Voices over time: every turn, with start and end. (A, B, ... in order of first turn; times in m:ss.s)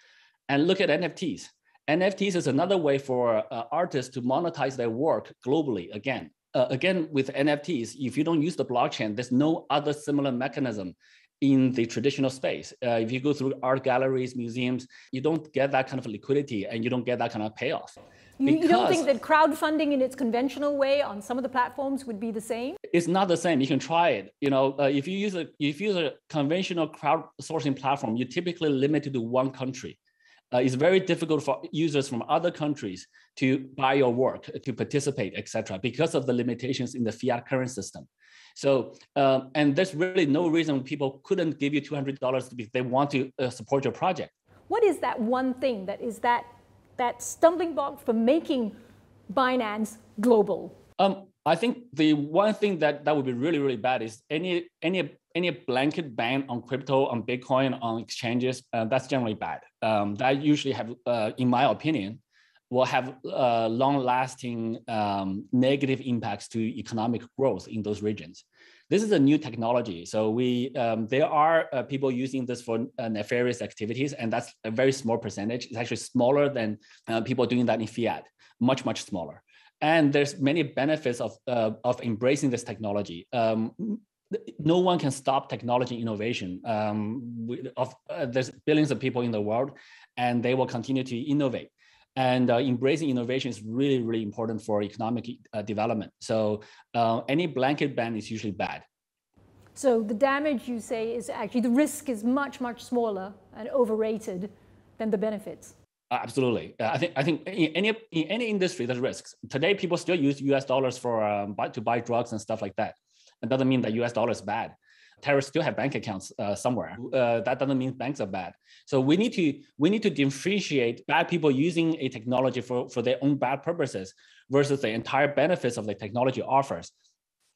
0:00.5-0:19.1 A
0:18.4-0:22.8 B
0:22.9-0:30.0 A
0:30.5-0:44.3 A
0:44.7-0:48.8 B
0:49.3-0:50.8 B
0:51.0-1:38.8 A
1:39.7-1:45.7 B
1:46.1-2:06.9 A